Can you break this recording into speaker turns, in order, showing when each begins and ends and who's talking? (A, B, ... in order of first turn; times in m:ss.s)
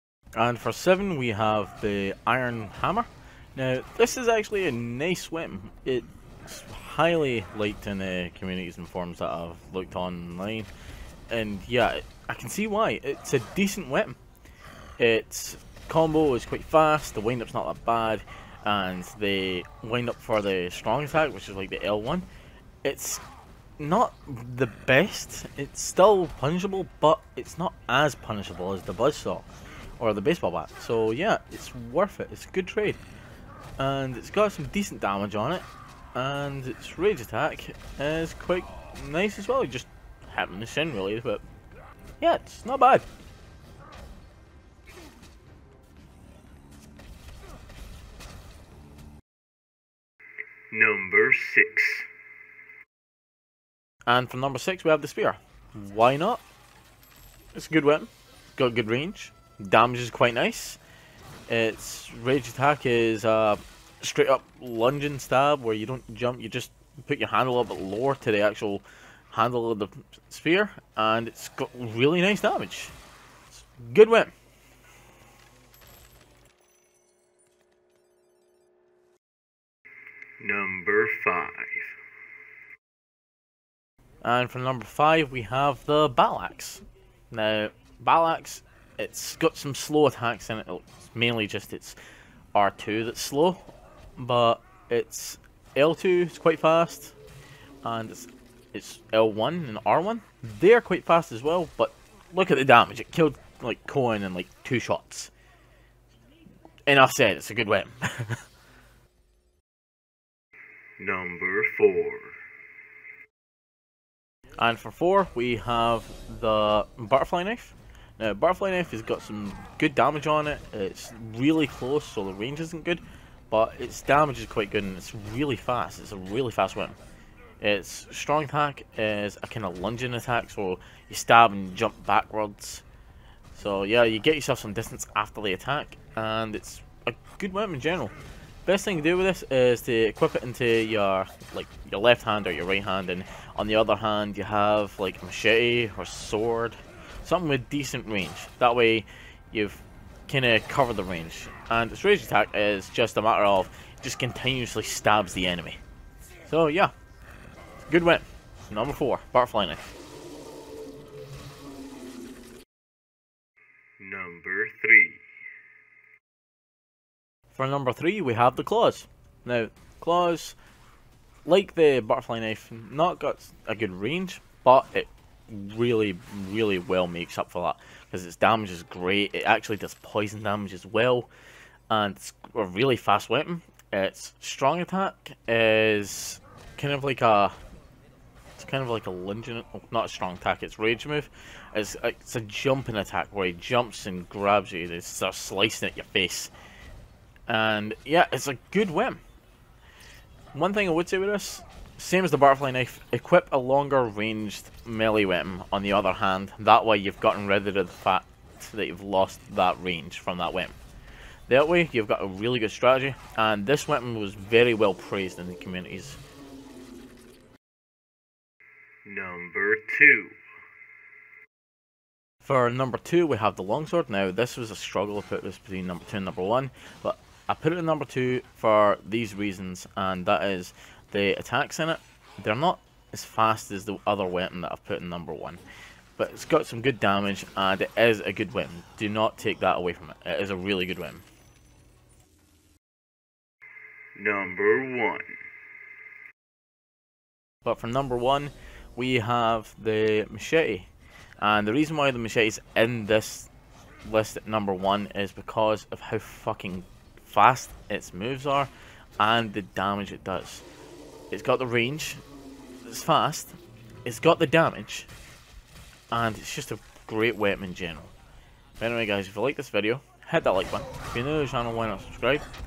0:00.4-0:10.7 A
0:11.3-0:14.2 A
0:15.0-0:22.3 A
0:22.8-0:23.2 A
0:23.8-0:29.5 A
0:30.0-0:33.0 A
0:33.8-0:41.4 A
0:42.2-0:43.0 A
0:50.7-0:52.1 B
0:54.0-0:56.4 A
0:57.5-1:00.8 A
1:01.5-1:12.9 A
1:13.5-1:14.3 A
1:20.4-1:21.9 B
1:24.2-1:32.0 A
1:32.5-1:37.2 A
1:37.8-1:45.3 A
1:46.9-1:48.4 A
1:51.0-1:52.4 B
1:54.6-2:07.0 A
2:07.6-2:12.8 A
2:13.5-2:18.1 A
2:18.6-2:35.8 A
2:36.4-2:36.9 A
2:37.8-2:39.9 A
2:44.0-2:45.2 B
2:47.5-2:50.6 A
2:51.4-3:01.3 A
3:01.9-3:07.6 A
3:08.6-3:16.5 A
3:17.5-3:19.2 A
3:20.5-3:30.8 A
3:31.5-3:36.2 A
3:39.0-3:40.4 B
3:42.4-3:55.6 A
3:56.2-4:01.2 A
4:04.2-4:05.4 B
4:07.6-4:13.5 A
4:14.0-4:20.6 A
4:21.3-4:22.2 A
4:22.8-4:25.1 A
4:26.1-4:28.1 A
4:28.8-4:32.4 A